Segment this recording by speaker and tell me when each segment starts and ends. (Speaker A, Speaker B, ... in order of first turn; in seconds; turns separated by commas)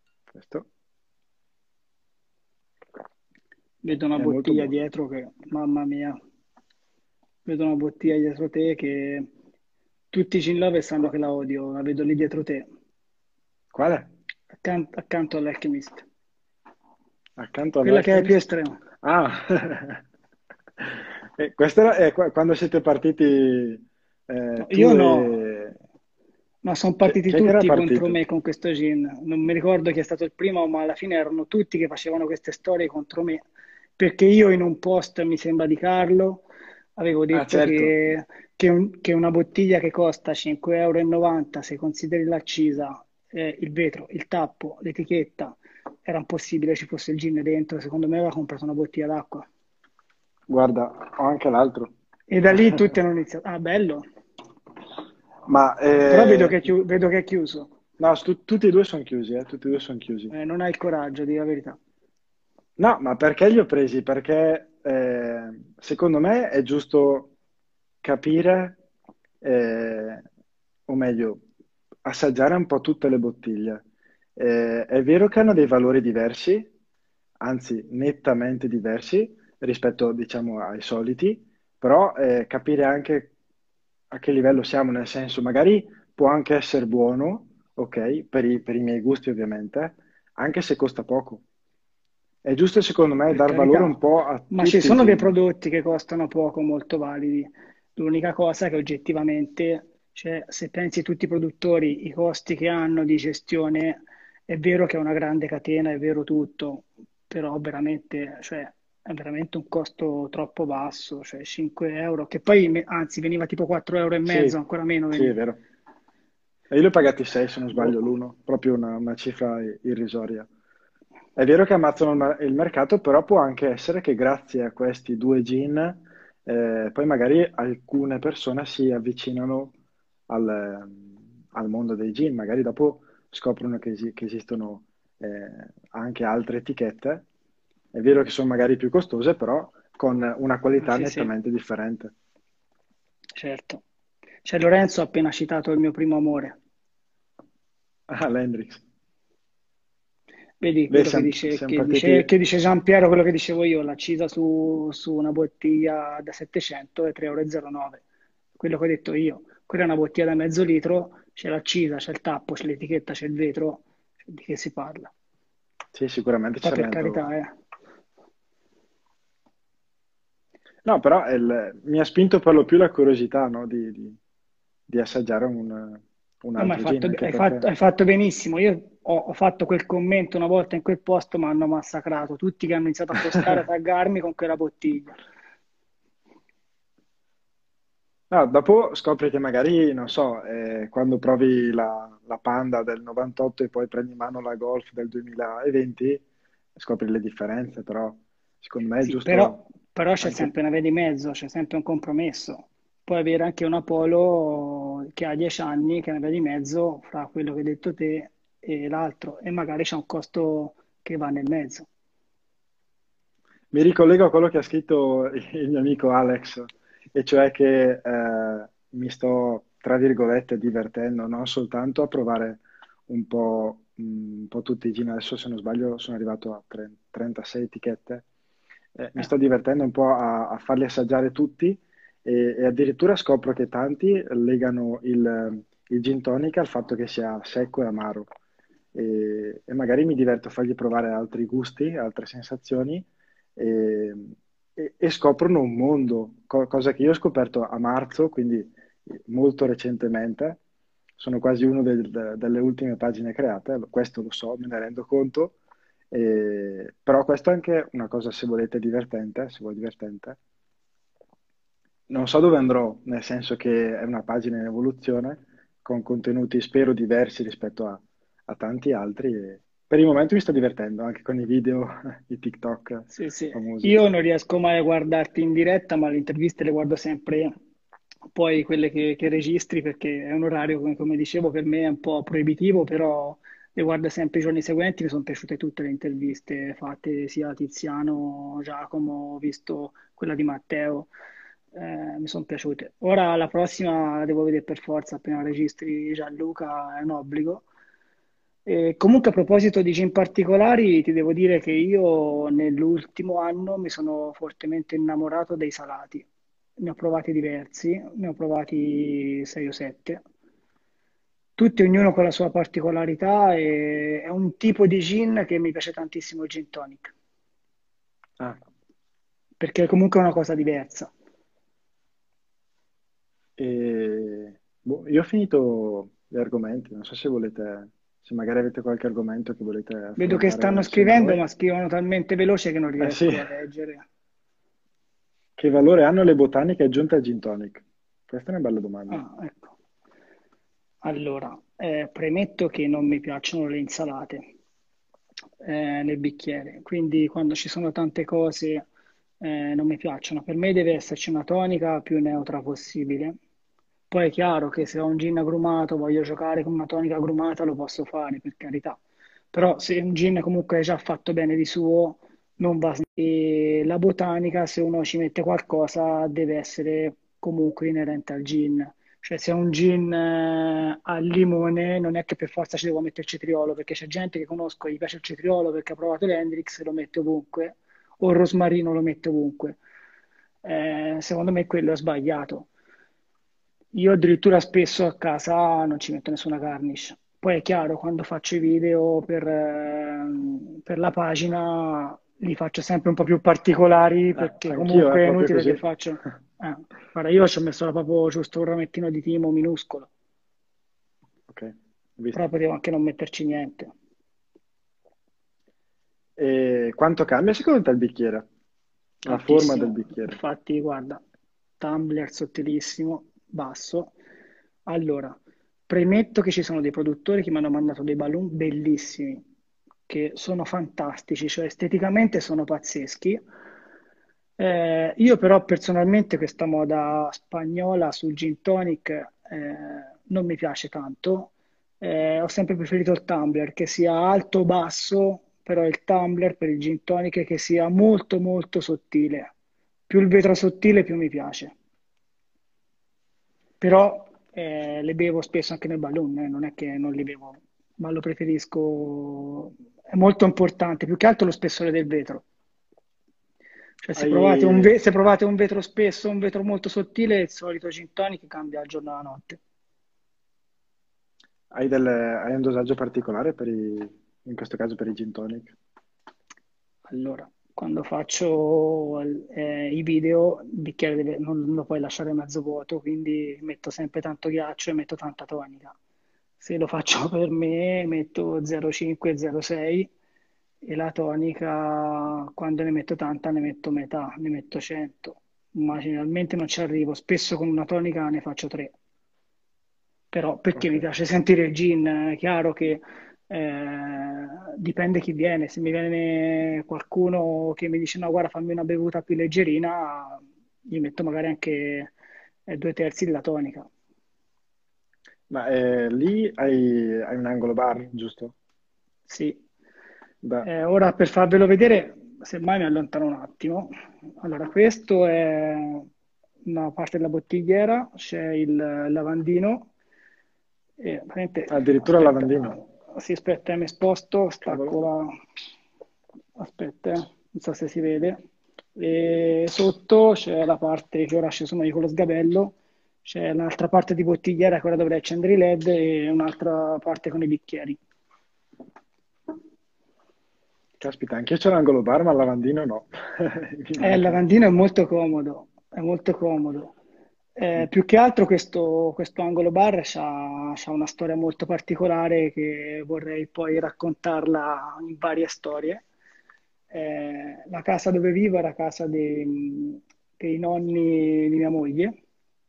Speaker A: 0.3-0.7, Speaker B: 3.8-6.2, Speaker A: 4.2-4.7, Speaker B: 7.5-9.3, Speaker B: 10.1-12.7, Speaker A: 13.7-14.1, Speaker B: 14.6-16.1, Speaker A: 17.4-18.4, Speaker B: 17.8-18.8, Speaker A: 19.0-20.0, Speaker A: 20.8-25.8, Speaker B: 24.6-25.4, Speaker B: 26.6-33.4, Speaker A: 27.0-28.2, Speaker B: 34.0-36.5, Speaker B: 37.0-49.5, Speaker A: 37.3-37.9, Speaker A: 50.5-51.9, Speaker B: 52.3-54.0, Speaker A: 55.5-56.6, Speaker B: 56.1-57.7, Speaker A: 58.0-60.3, Speaker B: 60.3-61.8, Speaker A: 62.8-67.3, Speaker A: 68.0-68.8, Speaker A: 69.4-70.2, Speaker A: 70.9-71.4, Speaker A: 72.0-73.8, Speaker A: 74.4-76.7, Speaker A: 77.4-83.3, Speaker A: 84.1-91.4, Speaker A: 92.5-95.3, Speaker B: 93.3-94.0, Speaker B: 94.5-115.3, Speaker A: 114.3-114.6, Speaker A: 115.1-115.6, Speaker A: 116.7-120.5, Speaker A: 121.4-129.7, Speaker A: 130.3-137.2, Speaker A: 137.9-142.1, Speaker B: 140.8-141.3, Speaker B: 143.4-143.8, Speaker B: 144.4-146.6, Speaker A: 148.1-148.8, Speaker B: 150.6-158.0, Speaker A: 150.9-152.3, Speaker B: 158.6-165.1, Speaker A: 165.9-167.3, Speaker B: 166.6-167.5, Speaker A: 170.8-174.2, Speaker A: 174.9-177.7, Speaker B: 176.6-185.2, Speaker A: 188.3-196.2, Speaker A: 196.8-199.6, Speaker B: 199.0-211.9, Speaker A: 200.2-200.5, Speaker A: 213.7-228.2, Speaker A: 229.0-238.3, Speaker A: 238.9-250.6, Speaker A: 251.2-255.5, Speaker A: 256.1-260.4, Speaker A: 262.1-274.0, Speaker B: 273.1-277.5, Speaker B: 278.3-291.1, Speaker B: 291.7-297.6, Speaker B: 298.7-306.3, Speaker B: 306.8-310.2, Speaker B: 311.6-317.1, Speaker B: 319.6-321.1, Speaker A: 323.6-331.4, Speaker B: 330.2-334.1, Speaker A: 333.0-333.5, Speaker A: 335.6-339.2, Speaker B: 339.1-339.7, Speaker B: 341.0-344.4, Speaker B: 345.6-348.9, Speaker B: 349.4-353.4, Speaker B: 354.1-359.0, Speaker B: 359.5-379.8, Speaker B: 380.6-382.7, Speaker B: 383.9-400.1, Speaker A: 394.4-395.8, Speaker A: 401.5-402.4, Speaker B: 402.3-403.9, Speaker A: 406.4-408.4, Speaker A: 409.3-410.4, Speaker B: 409.3-411.2, Speaker B: 411.8-414.1, Speaker B: 414.9-415.4, Speaker B: 415.9-419.4, Speaker B: 420.1-423.4, Speaker B: 424.6-439.5, Speaker B: 440.1-441.7, Speaker B: 443.8-452.4, Speaker B: 454.0-459.6, Speaker A: 454.2-454.9, Speaker A: 461.7-465.7, Speaker B: 467.1-475.9, Speaker B: 476.6-480.1, Speaker B: 480.8-488.9, Speaker B: 490.3-502.1, Speaker A: 490.8-491.0, Speaker B: 502.7-503.9, Speaker A: 505.5-508.5, Speaker B: 509.3-509.6, Speaker A: 510.4-510.7, Speaker B: 510.6-516.1, Speaker B: 516.6-519.9, Speaker B: 521.0-525.3, Speaker A: 521.7-522.8, Speaker A: 524.6-525.1, Speaker B: 526.6-528.4, Speaker B: 529.0-538.0, Speaker A: 541.0-544.4, Speaker B: 544.0-546.9, Speaker B: 547.6-556.0, Speaker B: 556.9-562.2